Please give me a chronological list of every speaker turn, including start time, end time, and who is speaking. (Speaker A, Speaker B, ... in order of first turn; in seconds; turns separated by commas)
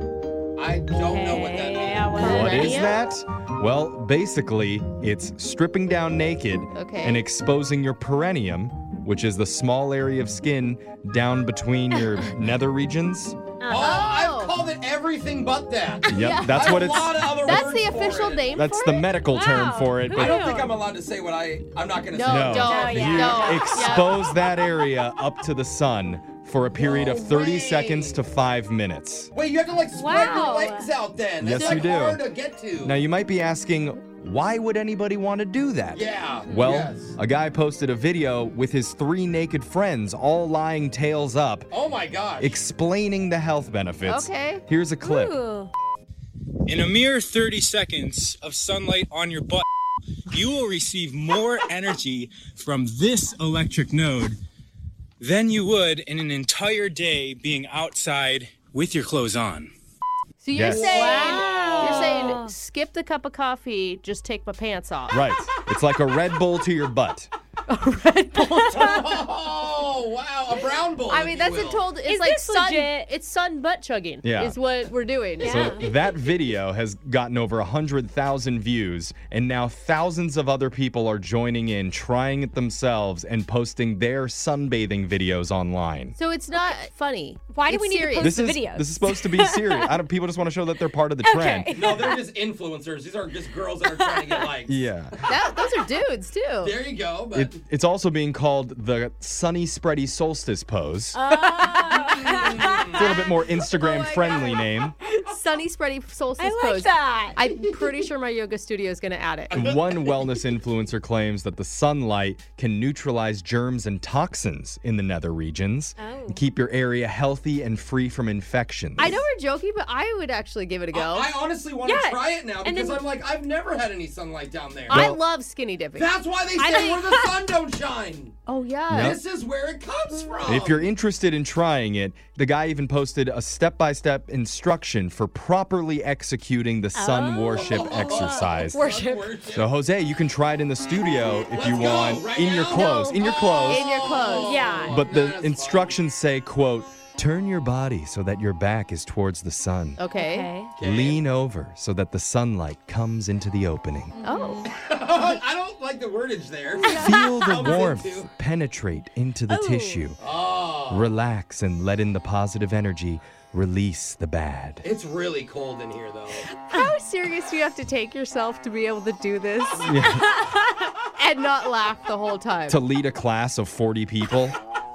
Speaker A: 0.6-2.7, Speaker B: 1.0-2.9, Speaker C: 2.1-3.0, Speaker D: 2.2-13.4, Speaker C: 6.8-7.2, Speaker B: 13.6-14.1, Speaker A: 13.7-18.6, Speaker C: 13.8-14.5, Speaker D: 16.1-17.1, Speaker C: 16.1-19.1, Speaker B: 16.1-16.5, Speaker D: 18.5-20.4, Speaker B: 19.3-20.8, Speaker A: 20.1-23.6, Speaker C: 22.1-24.3, Speaker D: 22.3-29.3, Speaker B: 22.6-23.9, Speaker A: 26.8-28.2, Speaker A: 29.3-33.0, Speaker B: 29.9-30.9, Speaker D: 31.4-32.2, Speaker C: 31.6-32.0, Speaker D: 32.8-41.7, Speaker A: 35.9-37.2, Speaker A: 41.7-42.6, Speaker D: 42.4-45.4, Speaker C: 44.1-44.6, Speaker B: 45.0-45.7, Speaker E: 46.7-49.6, Speaker E: 50.3-54.4, Speaker E: 55.2-59.7, Speaker C: 60.4-65.2, Speaker D: 60.5-61.1, Speaker B: 60.7-62.5, Speaker A: 61.1-61.4, Speaker E: 61.6-61.9, Speaker D: 65.1-67.3, Speaker C: 67.7-69.2, Speaker A: 68.7-71.8, Speaker C: 71.1-75.9, Speaker B: 72.0-73.0, Speaker D: 74.2-74.6, Speaker B: 75.4-75.8, Speaker D: 75.4-86.2, Speaker C: 86.2-88.4, Speaker B: 87.5-89.9, Speaker D: 88.2-91.8, Speaker B: 91.2-92.2, Speaker A: 91.7-95.4, Speaker B: 94.0-94.4, Speaker D: 94.7-95.2, Speaker C: 95.3-96.8, Speaker A: 96.6-97.6, Speaker D: 97.3-101.2, Speaker B: 101.2-103.3, Speaker C: 101.5-109.6, Speaker A: 102.2-103.1, Speaker D: 102.9-105.0, Speaker B: 106.4-107.9, Speaker A: 109.5-110.2, Speaker D: 109.5-119.2, Speaker B: 116.0-116.4, Speaker C: 119.0-121.3, Speaker A: 120.9-125.1, Speaker B: 121.8-123.0, Speaker C: 124.9-126.1, Speaker D: 124.9-125.2, Speaker A: 126.0-128.4, Speaker B: 126.6-127.3, Speaker C: 128.5-129.2, Speaker D: 128.9-129.2, Speaker A: 128.9-130.9, Speaker D: 130.5-138.9, Speaker B: 136.9-139.3, Speaker A: 137.5-139.7, Speaker D: 139.5-144.2, Speaker A: 141.3-146.0, Speaker C: 142.7-144.6, Speaker B: 144.3-145.0, Speaker D: 144.9-150.0, Speaker C: 150.0-150.5, Speaker B: 150.2-150.7, Speaker A: 150.8-151.2, Speaker D: 150.8-154.1, Speaker B: 154.2-154.6, Speaker C: 154.2-154.7, Speaker A: 154.7-158.3, Speaker C: 156.8-157.6, Speaker D: 156.9-160.2, Speaker B: 159.5-160.1, Speaker A: 160.2-161.2, Speaker D: 160.9-164.8, Speaker A: 164.8-166.5, Speaker C: 166.7-170.0, Speaker D: 169.8-170.4, Speaker B: 170.3-170.6, Speaker C: 171.2-172.8, Speaker D: 172.7-174.6